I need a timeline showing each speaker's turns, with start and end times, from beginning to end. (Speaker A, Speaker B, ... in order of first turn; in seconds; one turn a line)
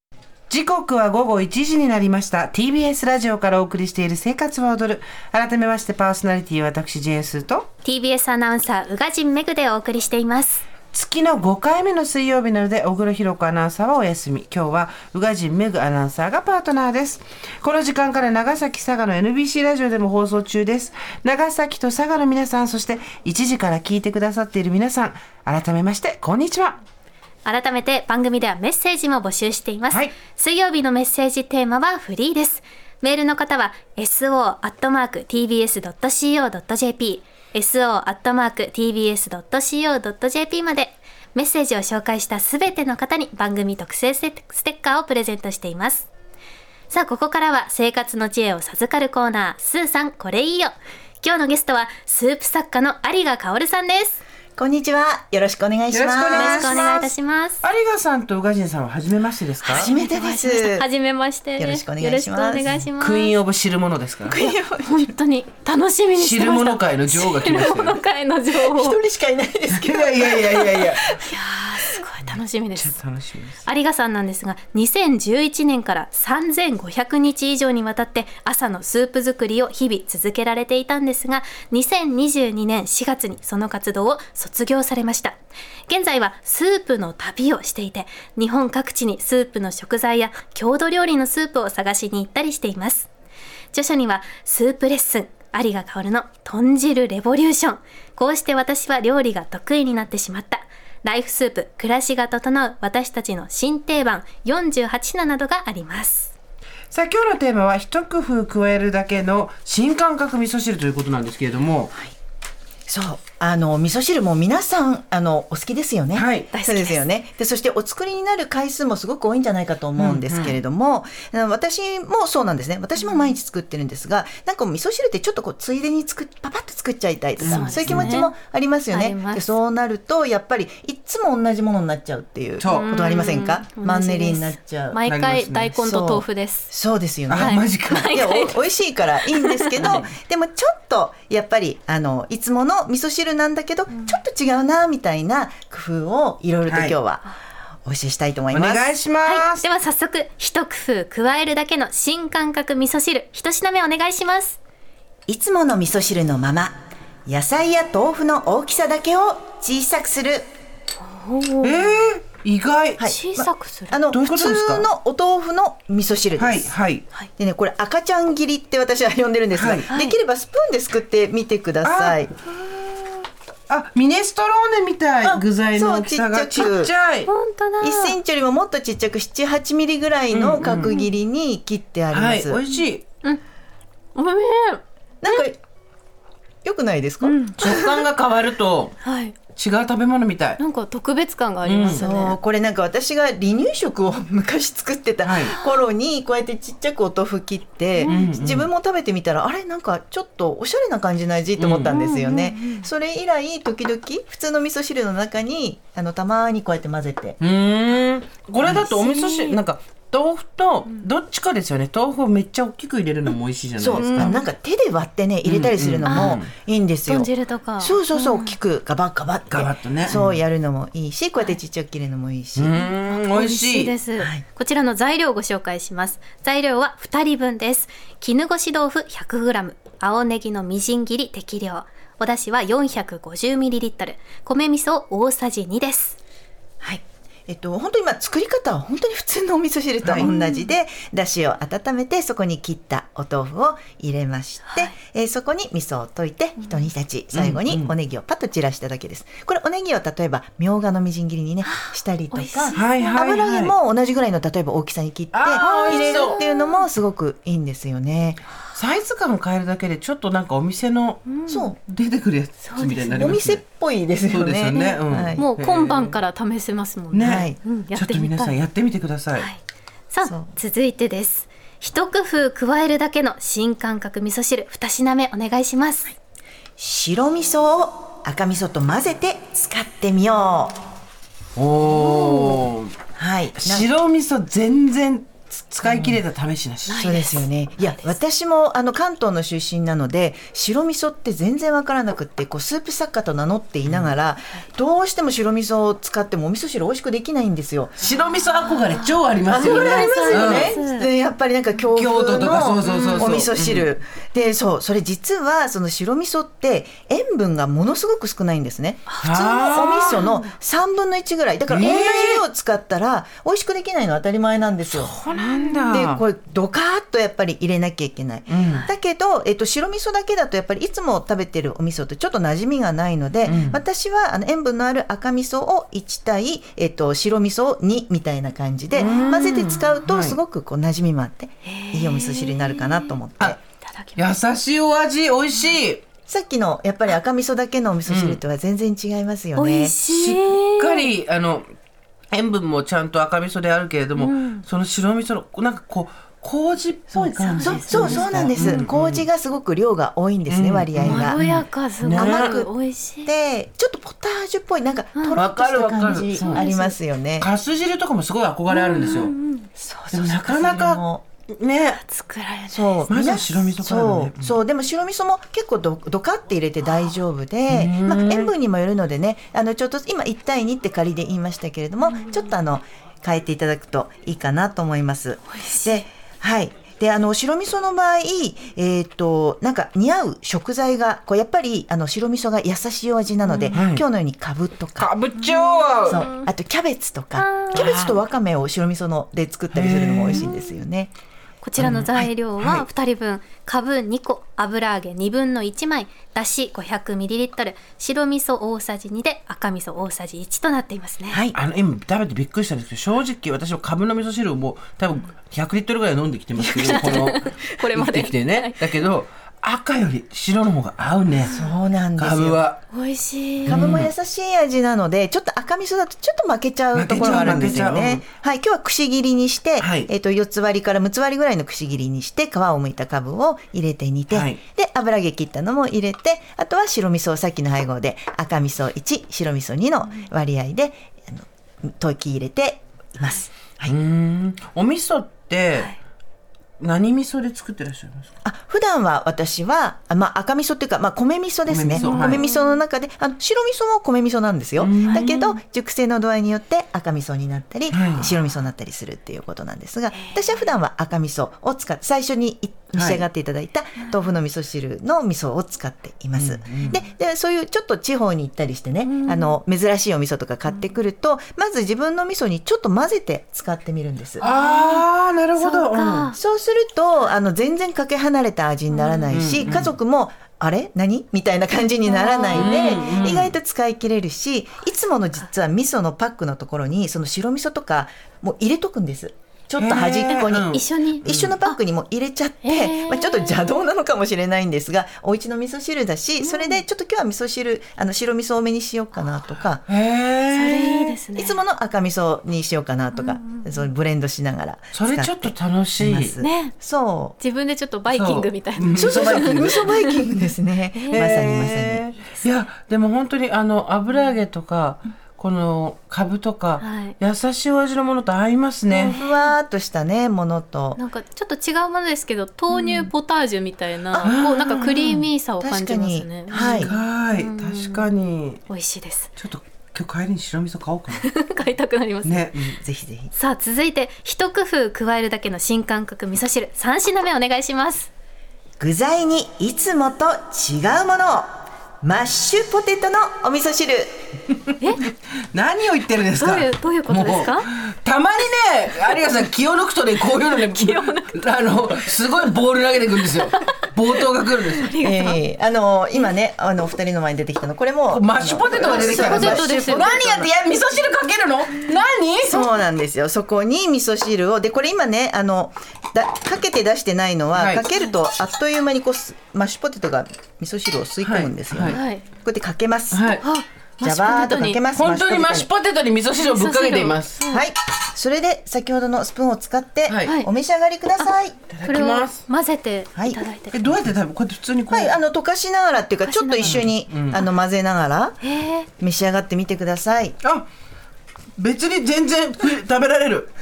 Speaker A: 0.5-7.7
Speaker B: 7.8-10.6
Speaker A: 10.9-26.8
Speaker B: 27.4-46.1
Speaker B: 46.9-54.2
Speaker C: 54.6-57.1
Speaker A: 55.9-56.7
Speaker B: 56.3-57.6
Speaker A: 57.6-59.9
Speaker B: 59.7-63.3
Speaker C: 59.7-60.9
Speaker C: 61.6-62.8
Speaker A: 63.0-64.4
Speaker C: 64.3-65.2
Speaker B: 64.3-69.0
Speaker A: 66.2-68.0
Speaker C: 68.5-71.2
Speaker A: 69.7-71.1
Speaker B: 71.2-72.9
Speaker A: 72.8-73.6
Speaker B: 73.6-93.1
Speaker B: 93.7-106.3
Speaker A: 106.9-111.9
Speaker C: 112.9-135.0
Speaker A: 116.1-116.5
Speaker B: 116.5-117.0
Speaker A: 120.0-120.6
Speaker B: 127.4-128.3
Speaker A: 127.4-128.2
Speaker B: 128.9-129.6
Speaker A: 132.6-133.0
Speaker B: 132.7-136.7
Speaker A: 135.1-135.8
Speaker C: 135.8-148.8
Speaker A: 137.3-138.2
Speaker B: 137.3-138.6
Speaker B: 139.3-140.0
Speaker A: 139.8-140.1
Speaker A: 146.7-147.0
Speaker A: 148.5-149.7
Speaker B: 149.2-154.6
Speaker C: 155.3-160.5
Speaker B: 161.0-161.8
Speaker A: 161.6-163.0
Speaker C: 163.0-166.8
Speaker B: 163.0-164.0
Speaker A: 164.1-164.9
Speaker A: 166.4-167.0
Speaker C: 167.4-172.3
Speaker A: 169.5-169.8
Speaker B: 169.9-170.2
Speaker A: 171.8-177.3
Speaker C: 175.2-176.9
Speaker B: 177.3-178.2
Speaker C: 177.8-182.6
Speaker A: 180.3-181.0
Speaker A: 182.1-183.1
Speaker B: 184.2-185.4
Speaker C: 185.2-185.6
Speaker C: 186.6-188.1
Speaker B: 187.2-187.6
Speaker A: 187.6-188.9
Speaker B: 189.0-189.4
Speaker A: 189.6-190.6
Speaker B: 190.6-192.4
Speaker A: 191.7-192.1
Speaker C: 191.9-207.4
Speaker A: 195.2-195.6
Speaker A: 198.1-198.7
Speaker A: 201.6-202.0
Speaker B: 201.9-202.9
Speaker A: 207.4-214.4
Speaker B: 208.7-209.6
Speaker C: 213.8-222.8
Speaker B: 213.9-214.4
Speaker A: 215.4-216.5
Speaker B: 216.1-216.4
Speaker B: 217.1-218.6
Speaker A: 219.5-220.4
Speaker A: 222.6-223.9
Speaker B: 222.8-236.2
Speaker C: 224.2-224.4
Speaker C: 236.8-258.4
Speaker A: 240.0-240.3
Speaker B: 240.2-240.7
Speaker B: 244.7-244.9
Speaker A: 247.3-247.9
Speaker B: 251.6-253.1
Speaker A: 252.7-253.8
Speaker A: 255.3-256.4
Speaker B: 255.6-256.9
Speaker A: 258.7-261.3
Speaker B: 261.3-261.7
Speaker C: 261.5-261.8
Speaker A: 261.9-263.6
Speaker B: 262.6-263.4
Speaker C: 263.1-265.4
Speaker A: 264.3-266.2
Speaker B: 264.7-268.5
Speaker A: 267.1-269.5
Speaker C: 267.2-267.6
Speaker B: 270.1-276.1
Speaker C: 270.2-270.6
Speaker C: 276.8-280.8
Speaker A: 281.6-282.9
Speaker B: 281.9-282.6
Speaker C: 283.1-283.9
Speaker A: 283.6-287.1
Speaker C: 285.8-286.2
Speaker B: 286.9-288.2
Speaker C: 287.0-297.9
Speaker A: 293.9-294.1
Speaker A: 298.0-300.8
Speaker C: 299.5-315.1
Speaker B: 299.6-301.1
Speaker A: 301.9-303.9
Speaker B: 302.9-303.4
Speaker B: 309.1-310.5
Speaker A: 309.2-310.2
Speaker A: 311.7-312.4
Speaker A: 314.9-316.2
Speaker B: 315.3-315.9
Speaker C: 315.9-333.6
Speaker A: 318.5-318.9
Speaker A: 323.5-323.8
Speaker A: 328.9-330.4
Speaker B: 331.6-333.2
Speaker B: 333.8-334.3
Speaker A: 334.2-336.0
Speaker C: 336.3-340.0
Speaker A: 338.1-338.4
Speaker B: 339.6-341.1
Speaker A: 340.1-341.7
Speaker A: 342.3-349.2
Speaker B: 344.2-344.6
Speaker C: 347.1-351.4
Speaker B: 347.4-348.8
Speaker A: 350.5-352.6
Speaker B: 351.0-353.3
Speaker C: 352.0-352.7
Speaker C: 353.2-357.5
Speaker A: 355.4-356.6
Speaker B: 356.4-357.0
Speaker A: 357.4-359.3
Speaker B: 358.7-359.7
Speaker C: 359.8-361.2
Speaker A: 360.1-362.0
Speaker B: 361.9-363.1
Speaker C: 362.7-385.1
Speaker A: 363.1-364.6
Speaker A: 367.7-368.5
Speaker B: 372.1-372.4
Speaker B: 375.5-376.0
Speaker B: 383.5-383.8
Speaker A: 383.7-384.0
Speaker A: 385.0-386.2
Speaker B: 385.4-386.5
Speaker C: 386.1-391.1
Speaker B: 387.4-387.8
Speaker A: 387.7-388.2
Speaker A: 389.7-390.5
Speaker B: 390.3-390.8
Speaker B: 391.6-401.4
Speaker C: 391.8-392.1
Speaker A: 391.8-392.9
Speaker C: 401.3-401.6
Speaker A: 401.5-411.5
Speaker C: 406.6-407.2
Speaker B: 406.8-408.9
Speaker B: 411.5-411.7
Speaker C: 411.5-412.6
Speaker A: 412.2-412.8
Speaker B: 412.9-413.9
Speaker C: 413.6-433.9
Speaker A: 413.7-414.1
Speaker A: 416.9-418.2
Speaker A: 419.8-420.1
Speaker A: 424.3-424.6
Speaker A: 433.9-435.9
Speaker A: 436.8-438.3
Speaker C: 438.4-464.4
Speaker A: 441.7-442.4
Speaker B: 442.0-442.8
Speaker A: 444.8-445.6
Speaker A: 447.9-448.4
Speaker B: 450.1-450.7
Speaker A: 452.9-453.2
Speaker B: 454.0-454.3
Speaker A: 456.4-457.0
Speaker B: 459.0-459.6
Speaker B: 464.4-465.1
Speaker A: 464.4-466.3
Speaker B: 465.6-466.4
Speaker C: 466.3-489.9
Speaker B: 468.9-469.8
Speaker A: 469.3-469.9
Speaker B: 472.0-473.3
Speaker A: 472.5-473.6
Speaker A: 479.8-481.5
Speaker B: 480.7-481.8
Speaker B: 482.6-483.8
Speaker B: 486.4-486.8
Speaker A: 489.9-491.1
Speaker B: 490.5-491.6
Speaker C: 491.4-497.4
Speaker B: 493.1-493.9
Speaker A: 494.9-496.4
Speaker B: 496.4-496.7
Speaker B: 497.4-500.2
Speaker A: 498.1-499.9
Speaker C: 498.9-502.1
Speaker B: 500.9-501.3
Speaker A: 501.1-509.2
Speaker B: 502.2-502.5
Speaker B: 506.8-507.1
Speaker C: 509.0-511.0
Speaker B: 509.0-509.5
Speaker B: 511.0-518.0
Speaker C: 512.8-513.1
Speaker A: 514.2-515.2
Speaker C: 515.6-516.9
Speaker A: 516.5-518.7
Speaker B: 518.7-519.3
Speaker A: 519.4-521.3
Speaker B: 521.1-522.5
Speaker A: 522.2-522.8
Speaker C: 522.8-523.3
Speaker B: 523.3-528.1
Speaker C: 528.8-531.5
Speaker C: 532.0-534.3
Speaker A: 535.5-544.9
Speaker B: 536.4-537.7
Speaker B: 540.4-541.3
Speaker B: 543.4-543.9
Speaker B: 544.8-545.4
Speaker C: 545.0-550.5
Speaker A: 548.1-552.6
Speaker B: 549.1-550.1
Speaker C: 552.4-563.2
Speaker A: 557.5-557.9
Speaker A: 561.2-562.0
Speaker B: 561.9-562.3
Speaker A: 563.1-563.5
Speaker B: 563.4-564.8
Speaker C: 564.0-565.7
Speaker A: 564.9-567.4
Speaker B: 566.4-567.6
Speaker C: 567.5-571.6
Speaker A: 570.1-570.4
Speaker B: 570.2-570.5
Speaker A: 571.7-572.4
Speaker B: 571.8-573.8
Speaker C: 573.1-574.1
Speaker A: 573.7-575.1
Speaker C: 574.9-578.4
Speaker B: 576.2-576.8
Speaker A: 576.6-577.4
Speaker B: 578.4-578.9
Speaker C: 579.0-580.4
Speaker A: 580.4-580.7
Speaker A: 581.6-583.5